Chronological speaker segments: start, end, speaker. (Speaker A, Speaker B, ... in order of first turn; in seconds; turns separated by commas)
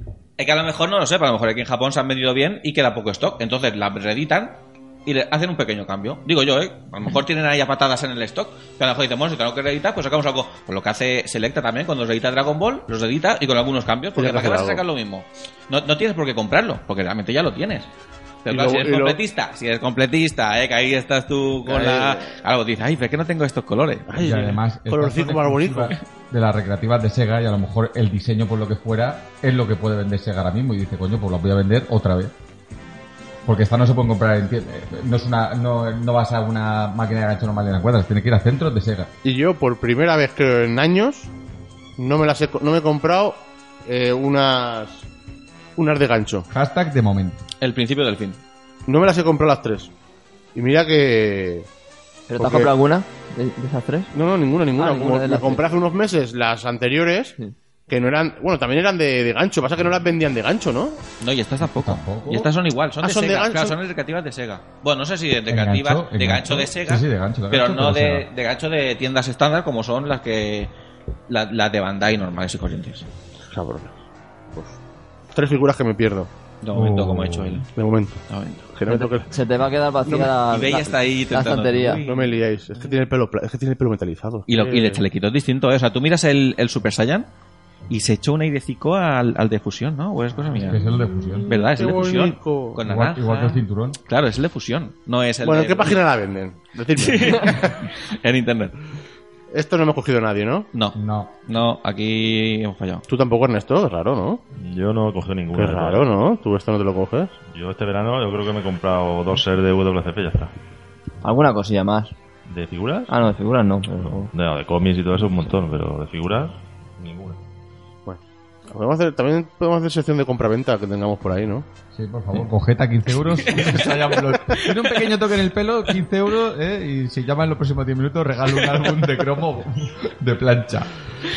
Speaker A: 0.4-17.9, Speaker B: 14.2-14.8, Speaker A: 18.5-24.1, Speaker B: 18.5-19.2, Speaker B: 21.7-22.3, Speaker B: 24.1-26.0, Speaker C: 24.1-32.3, Speaker C: 33.5-39.1, Speaker B: 39.2-41.3, Speaker B: 42.0-45.1, Speaker B: 45.8-46.5, Speaker C: 46.5-47.4, Speaker A: 47.6-48.4, Speaker B: 48.9-49.9, Speaker B: 50.5-51.7, Speaker D: 52.3-54.1, Speaker B: 52.4-52.7, Speaker B: 54.1-57.4, Speaker D: 54.8-55.7, Speaker B: 57.9-61.0, Speaker A: 61.2-70.7, Speaker C: 61.6-62.5, Speaker B: 63.0-63.8, Speaker C: 65.5-68.3, Speaker A: 71.3-73.1, Speaker B: 73.5-73.9, Speaker B: 75.3-76.3, Speaker A: 76.6-77.7, Speaker C: 76.7-77.6, Speaker B: 77.8-78.2, Speaker A: 78.3-78.7, Speaker B: 78.7-79.3, Speaker D: 78.9-82.0, Speaker B: 80.1-80.4, Speaker A: 80.5-82.4, Speaker B: 82.0-85.0, Speaker A: 84.5-87.3, Speaker A: 87.9-90.8, Speaker C: 90.6-91.5, Speaker A: 91.5-96.0, Speaker B: 91.5-92.8, Speaker C: 92.8-94.0, Speaker B: 95.4-97.7, Speaker A: 97.0-98.8, Speaker B: 99.5-100.7, Speaker A: 100.7-103.0, Speaker C: 101.0-101.3, Speaker B: 103.1-104.4, Speaker E: 104.6-106.1, Speaker B: 105.5-107.3, Speaker E: 107.5-110.5, Speaker D: 111.2-112.1, Speaker E: 112.5-113.1, Speaker D: 113.1-114.3, Speaker E: 114.0-117.4, Speaker B: 118.1-121.7, Speaker C: 121.9-130.9, Speaker A: 123.4-125.0